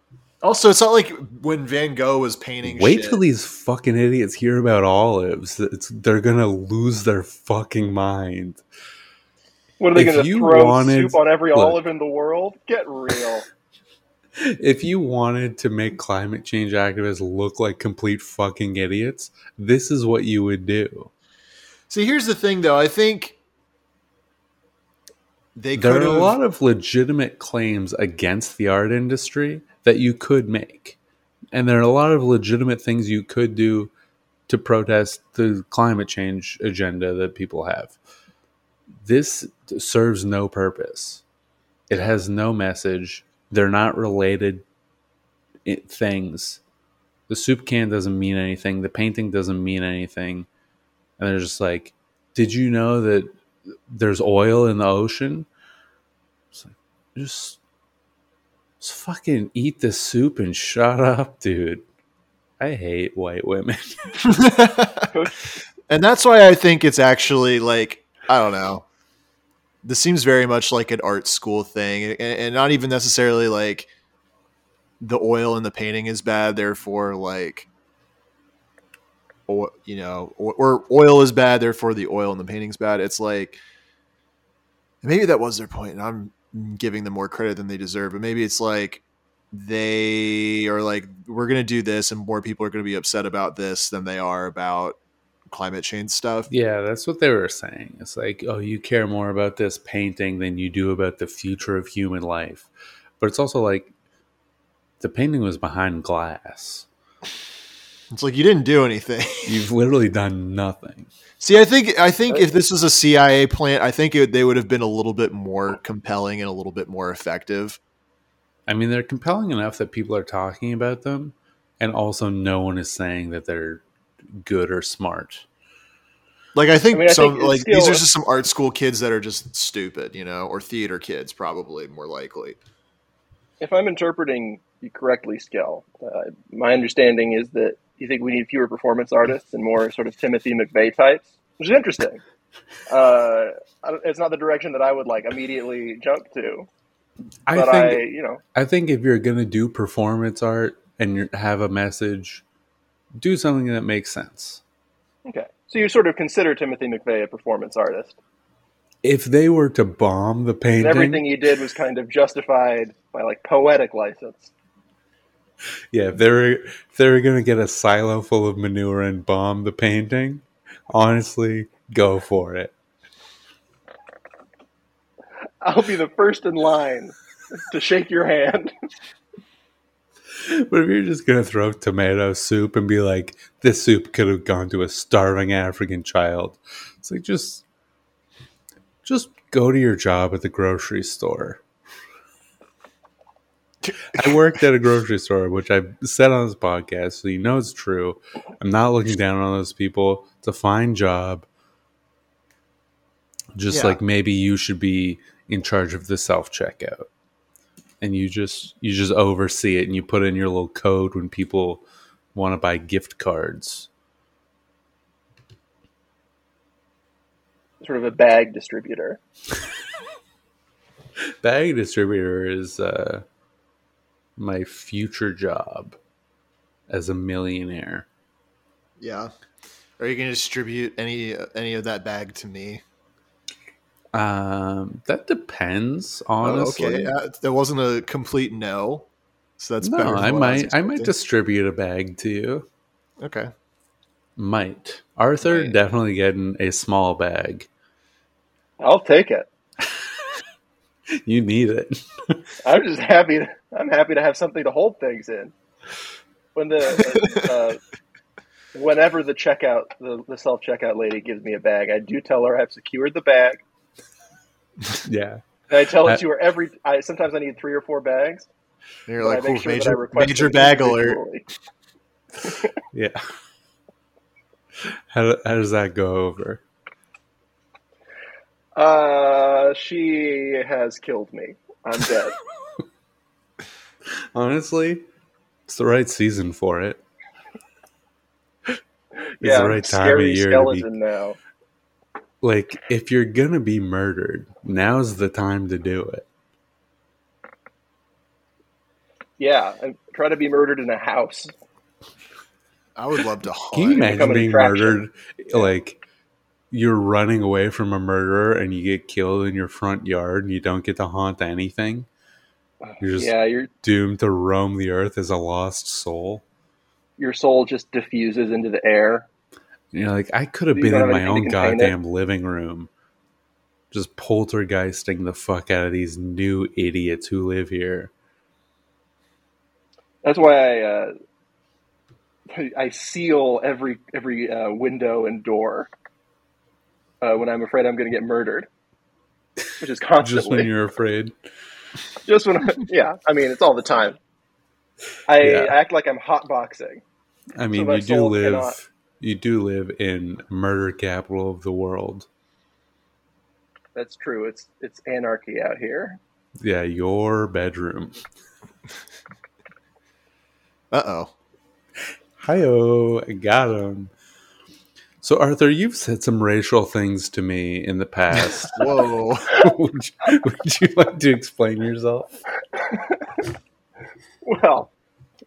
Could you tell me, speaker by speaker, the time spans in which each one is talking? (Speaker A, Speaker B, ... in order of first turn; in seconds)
Speaker A: 0.4-3.2, 21.9-23.4, 25.6-26.4, 64.2-65.1, 65.9-68.8, 69.8-73.9, 75.0-77.7, 79.5-83.6, 85.0-95.0, 95.5-96.5, 108.1-109.5, 111.4-117.8, 126.5-132.6, 193.8-194.4, 203.7-204.0, 229.0-229.3, 230.0-232.8, 236.4-239.1, 239.6-241.1, 243.2-243.5, 245.5-245.7, 257.1-257.5, 269.1-271.2, 303.0-304.2, 360.9-361.3, 368.4-369.5
Speaker B: 2.6-8.6, 9.9-11.8, 14.4-21.1, 25.8-31.0, 31.5-33.9, 34.5-38.0, 39.0-41.2, 41.9-44.6, 45.7-46.6, 47.3-50.5, 51.2-53.3, 53.9-55.5, 56.5-57.6, 58.8-61.9, 62.6-64.2, 96.5-102.7, 103.2-103.9, 105.0-106.9, 109.5-111.1, 118.7-123.8, 124.4-125.5, 147.5-148.0, 148.6-152.4, 153.2-154.6, 159.0-161.3, 165.9-172.7, 180.4-187.6, 189.0-191.6, 194.0-201.5, 203.6-207.1, 208.0-211.8, 212.3-213.9, 221.4-223.2, 224.4-226.0, 226.9-228.1, 234.1-237.1, 239.8-242.7, 244.4-247.7, 251.2-252.4, 265.0-265.4, 272.9-273.2, 275.1-276.6, 284.3-285.1, 285.7-287.0, 289.4-290.9, 292.4-296.3, 303.7-306.0, 306.7-312.1, 313.0-316.4, 319.9-322.9, 323.9-328.1, 340.2-341.3, 345.4-345.8, 347.6-352.3, 356.6-358.2, 362.4-364.1, 365.2-368.9, 369.5-372.3
Speaker C: 9.8-13.5, 65.1-65.4, 126.9-128.0, 133.6-142.2, 142.9-146.7, 147.5-148.4, 155.2-158.2, 160.8-164.5, 175.6-178.7, 217.8-219.2, 248.8-249.5, 252.6-255.5, 256.6-257.8, 258.7-263.6, 265.7-268.5, 269.2-271.5, 278.8-282.4, 289.4-291.4, 299.4-301.5, 303.9-305.0, 312.9-313.7, 317.2-319.3, 320.7-321.9, 330.2-331.1, 332.5-335.9, 337.2-338.7, 339.8-340.7, 342.3-344.2, 345.3-347.0, 347.7-348.8, 353.9-356.2, 372.8-373.4, 374.4-374.9